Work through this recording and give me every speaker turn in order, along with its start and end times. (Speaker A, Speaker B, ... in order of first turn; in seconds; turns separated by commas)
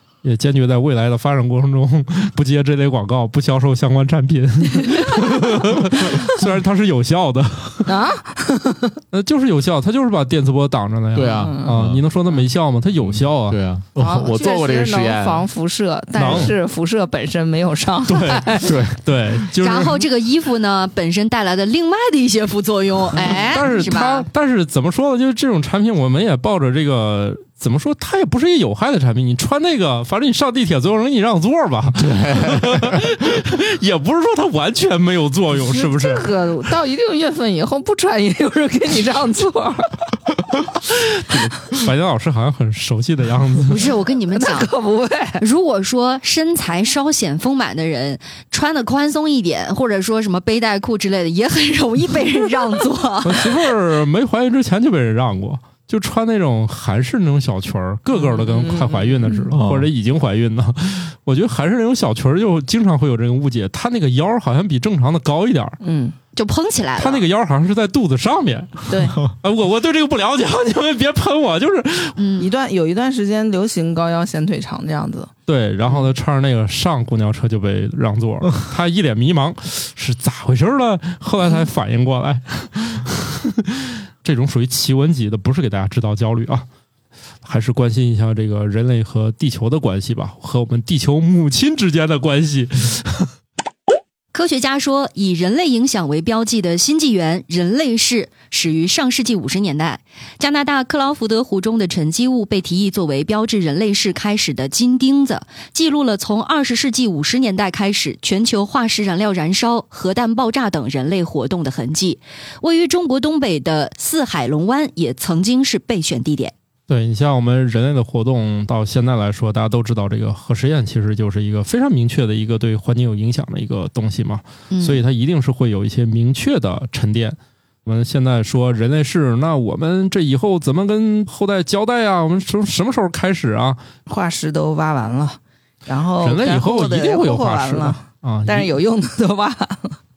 Speaker A: 0.2-8.0, Speaker B: 7.9-9.0, Speaker A: 9.1-13.6, Speaker C: 11.1-12.0, Speaker B: 11.3-11.7, Speaker C: 13.0-15.5, Speaker B: 14.0-18.8, Speaker A: 16.2-16.6, Speaker C: 16.3-16.5, Speaker A: 18.1-20.1, Speaker C: 18.6-19.0, Speaker D: 19.6-24.3, Speaker A: 23.2-36.3, Speaker C: 32.0-33.1, Speaker B: 35.5-40.0, Speaker A: 41.3-43.9, Speaker D: 43.7-44.7, Speaker B: 44.4-45.4, Speaker D: 45.4-53.5, Speaker A: 53.2-65.8, Speaker B: 58.1-59.5, Speaker C: 59.5-59.9, Speaker B: 65.8-66.2, Speaker D: 66.3-67.2, Speaker A: 67.0-72.2, Speaker B: 68.9-69.2, Speaker D: 72.2-72.5, Speaker B: 72.4-75.3, Speaker A: 75.5-86.7, Speaker A: 87.4-93.3, Speaker D: 94.3-116.5, Speaker A: 116.9-133.8, Speaker D: 124.7-125.0, Speaker B: 134.1-140.0, Speaker A: 136.2-138.7